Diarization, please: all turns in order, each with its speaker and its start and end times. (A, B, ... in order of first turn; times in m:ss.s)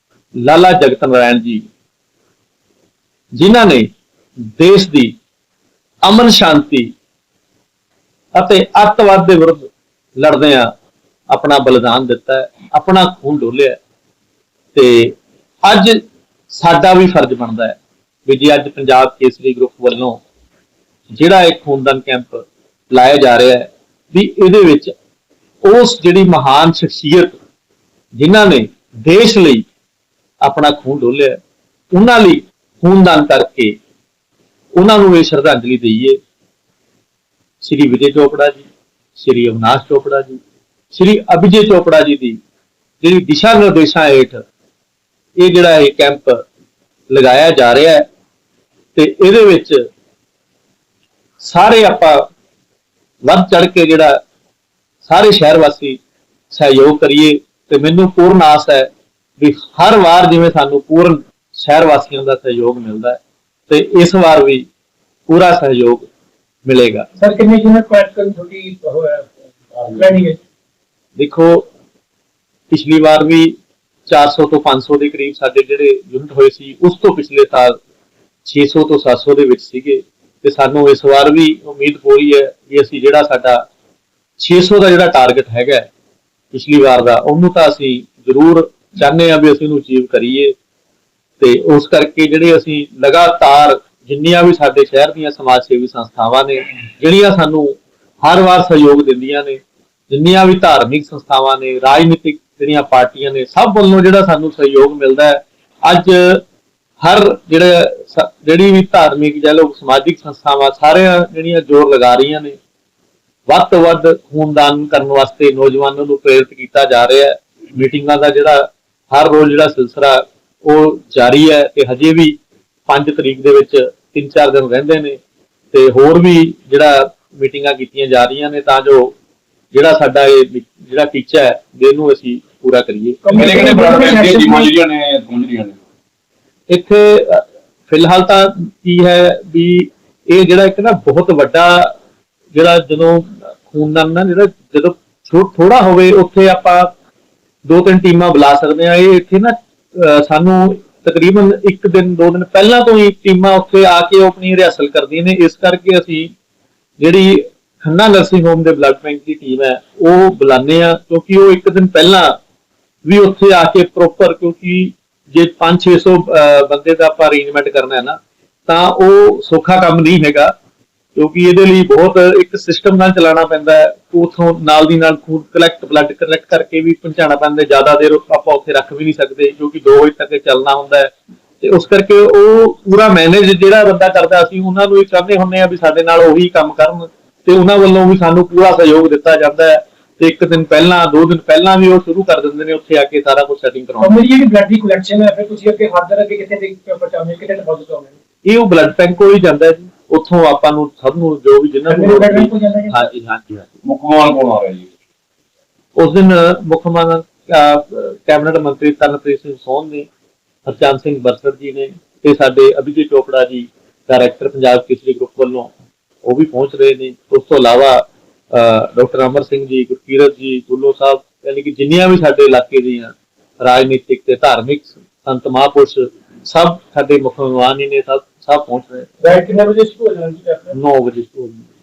0:00.4-0:01.6 A
0:03.3-0:03.9 A
0:04.5-0:05.1 A
0:06.0-0:06.9 A
0:08.3-0:10.7 A
0:11.3-0:13.8 A
0:14.7-0:16.0 A
0:16.5-0:20.2 A
0:21.1-0:24.9 A
0:25.6-0:27.4 A
0:28.2-0:29.6 A
0:30.4-0:31.4 A
0:31.9-0:33.7 A
0:34.8-0:36.2 A
0:37.6-0:38.6 A
0:39.2-0:40.4 A
0:40.9-0:42.4 A
0:43.0-0:44.4 A
0:45.4-0:46.4 A
0:47.1-0:48.0 A
0:48.9-0:49.8 A
0:51.4-0:52.3 A
0:53.2-0:54.2 A
0:55.0-0:56.0 A
0:56.5-1:04.6 A
1:05.3-1:06.0 A
1:06.6-1:07.1 A
1:07.2-1:10.4 B
1:11.2-1:11.7 A
1:12.7-1:13.6 A
1:14.1-1:17.8 A
1:18.4-1:23.6 A
1:24.4-1:25.9 A
1:26.5-1:30.5 A
1:31.4-1:39.6 A
1:40.1-1:46.4 A
1:47.0-1:52.6 A
1:53.5-2:02.4 A
2:02.9-2:05.2 A
2:05.7-2:09.1 A
2:09.7-2:13.6 A
2:13.2-2:14.7 B
2:13.3-2:15.8 C
2:16.7-2:21.9 A
2:22.5-2:26.9 A
2:27.6-2:36.3 A
2:37.0-2:42.4 A
2:43.0-2:50.5 A
2:51.2-3:14.2 A
3:14.0-3:18.1 B
3:18.4-3:23.6 A
3:21.9-3:23.0 B
3:23.8-3:24.9 C
3:26.0-3:30.1 A
3:30.6-3:35.7 A
3:36.2-3:49.1 A
3:49.2-3:50.8 B
3:50.7-3:51.6 A